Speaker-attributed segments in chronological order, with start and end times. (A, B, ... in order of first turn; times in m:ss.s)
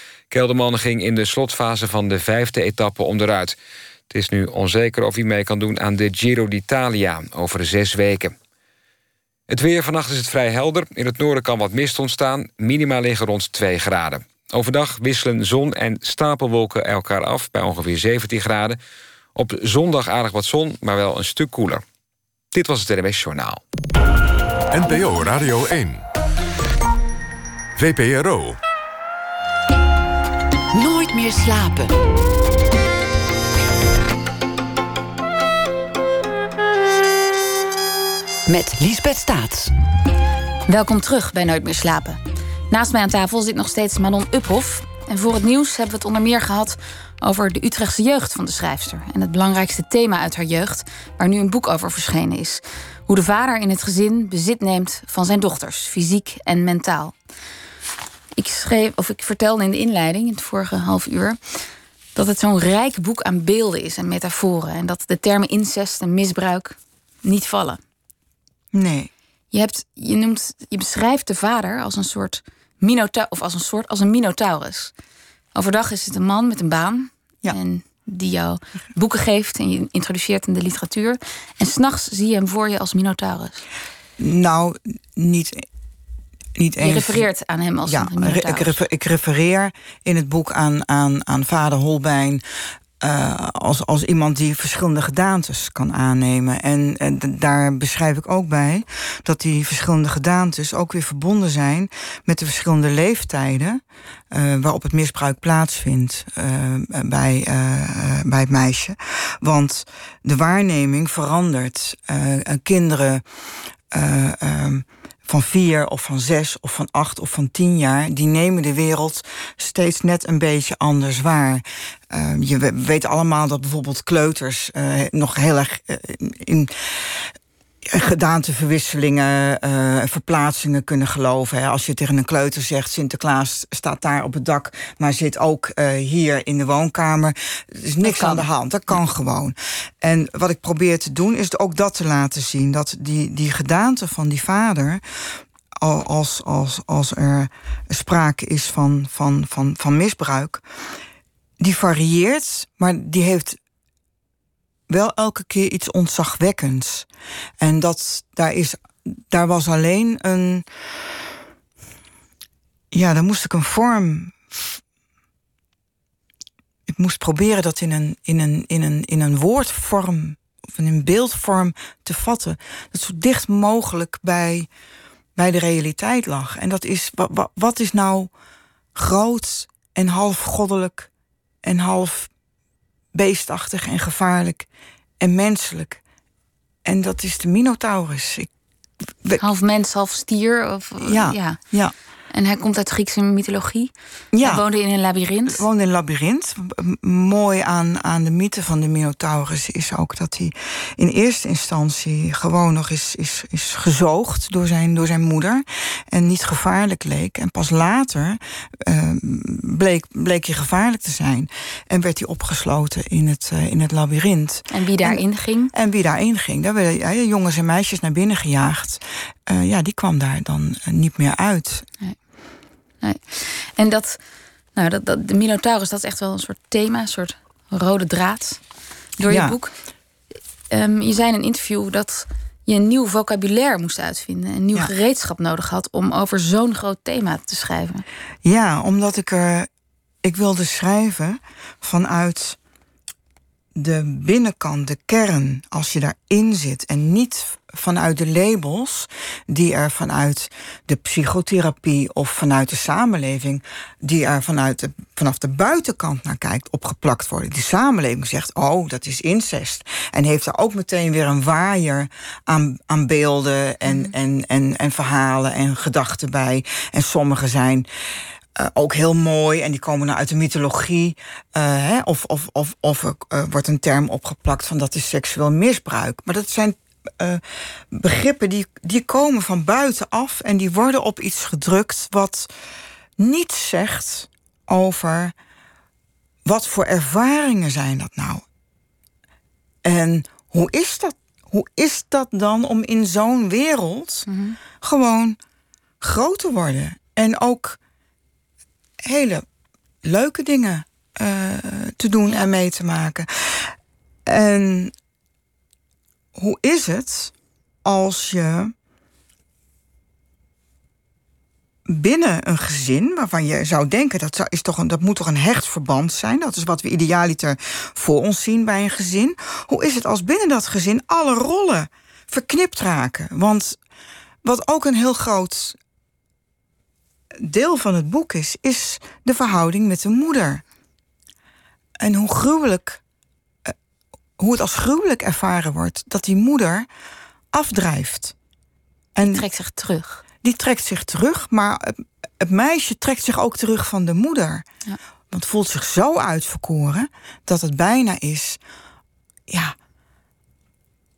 0:00.3-0:03.6 A
0:04.1-0:08.4 A
0:09.5-0:18.8 A
0:19.4-0:21.8 A
0:22.5-0:23.6 A
0:24.7-0:26.0 B
0:27.8-0:28.6 B
0:30.7-0:32.0 C
0:38.5-0:39.7 C
0:40.7-0:42.2 D
0:42.7-0:57.2 D
0:58.4-1:01.4 D
1:02.2-1:07.8 D
1:08.7-1:09.1 E
1:09.5-1:14.9 D
1:15.6-1:23.6 D
1:24.2-1:25.6 E
1:26.6-1:27.3 E
1:26.8-1:28.8 D
1:27.8-1:32.4 E
1:33.0-1:53.2 E
1:53.9-2:07.3 E
2:07.8-2:25.0 E
2:18.0-2:18.5 D
2:25.8-2:30.6 E
2:31.6-2:33.6 E
2:34.9-2:37.1 E
2:37.6-2:40.6 E
2:42.9-2:44.8 E
2:46.9-2:54.7 E
2:55.4-2:58.3 E
2:59.0-3:01.1 E
3:01.6-3:02.3 E
3:03.1-3:04.7 E
3:05.2-3:06.0 E
3:06.8-3:08.5 E
3:09.4-3:11.6 D
3:11.0-3:11.9 E
3:12.3-3:13.9 D
3:14.3-3:14.6 E
3:14.4-3:15.6 D
3:15.5-3:41.9 E
3:34.7-3:35.7 D
3:43.0-3:44.2 D
3:44.8-3:48.6 D
3:49.2-3:49.8 D
3:49.3-3:49.6 E
3:50.7-3:58.0 D
3:58.4-3:59.7 E
4:00.2-4:02.6 E
4:03.8-4:27.9 E
4:23.9-4:24.1 D
4:28.6-4:42.5 E
4:43.2-4:45.4 E
4:46.4-4:48.4 E
4:49.8-4:54.3 E
4:54.3-4:54.6 D
4:54.8-4:55.4 E
4:56.0-4:57.8 E
4:59.0-4:59.4 E
5:00.0-5:03.8 E
5:04.3-5:04.9 E
5:06.4-5:07.3 E
5:07.8-5:08.7 E
5:11.9-5:23.8 E
5:24.4-5:25.8 E
5:27.4-5:30.6 E
5:32.0-5:33.0 E
5:34.4-5:36.9 E
5:37.5-5:38.3 E
5:39.2-5:39.5 E
5:39.2-5:40.2 D
5:40.4-5:44.7 E
5:45.3-5:48.6 E
5:49.5-5:49.8 E